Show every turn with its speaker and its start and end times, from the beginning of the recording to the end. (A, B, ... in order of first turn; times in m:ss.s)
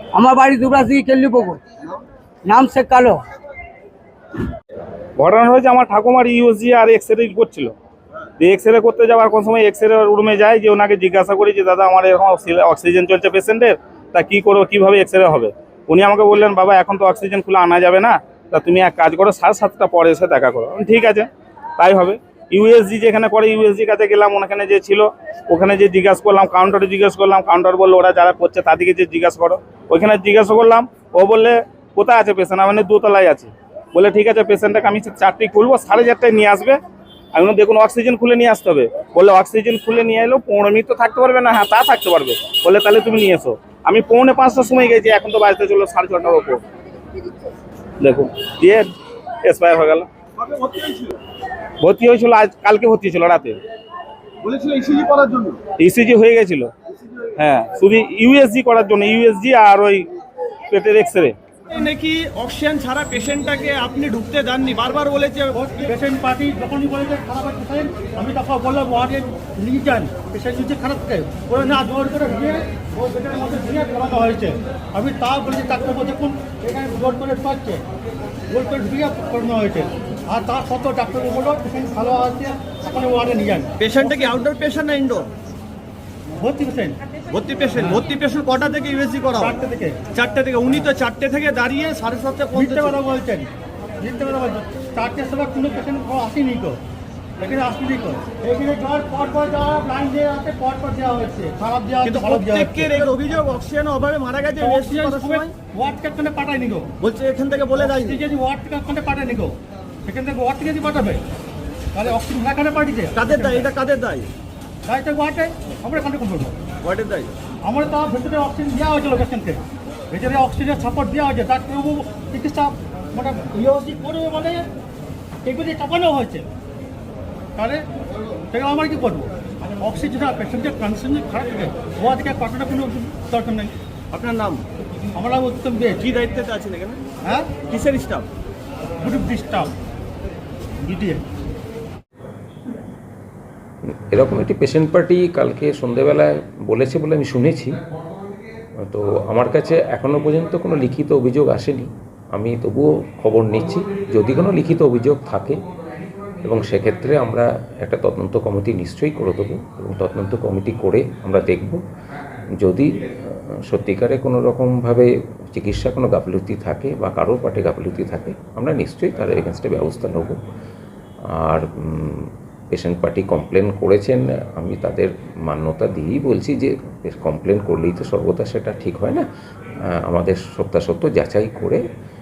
0:00.1-0:01.6 A
0:02.4-0:03.2 A
0:05.2-0:07.7 B
0:08.4-0:36.8 B
0:37.4-0:46.6 B
0:48.0-0:48.9 B
0:49.5-0:50.1 B
0:50.4-0:51.1 C
0:51.8-0:53.6 B
0:54.4-0:55.6 C
0:55.8-0:56.7 B
0:57.4-1:00.1 B
1:00.7-1:01.3 B
1:01.7-1:05.6 C
1:05.5-1:17.8 D
1:18.5-1:24.3 D
1:23.8-1:25.3 C
1:26.4-1:27.0 D
1:27.3-1:29.5 C
1:27.7-1:28.0 D
1:29.4-1:30.0 D
1:30.1-1:33.0 C
1:32.5-1:33.5 D
1:34.0-1:36.8 D
1:37.4-1:43.1 D
1:42.0-1:45.5 C
1:44.6-1:46.9 D
1:47.0-1:48.2 C
1:47.7-1:51.2 D
1:51.9-1:53.7 D
1:53.1-1:54.3 C
1:54.9-1:56.6 D
1:56.8-1:57.3 C
1:57.6-2:04.6 D
2:05.4-2:06.5 D
2:07.6-2:07.8 D
2:08.5-2:13.7 D
2:14.1-2:14.6 C
2:15.2-2:16.0 D
2:16.0-2:17.0 C
2:17.2-2:17.5 D
2:17.6-2:18.3 C
2:19.0-2:19.7 D
2:20.8-2:21.2 D
2:23.9-2:27.8 E
2:28.9-2:35.6 E
2:36.4-2:41.8 E
2:42.6-2:50.4 E
2:51.3-2:59.2 E
3:00.0-3:01.8 E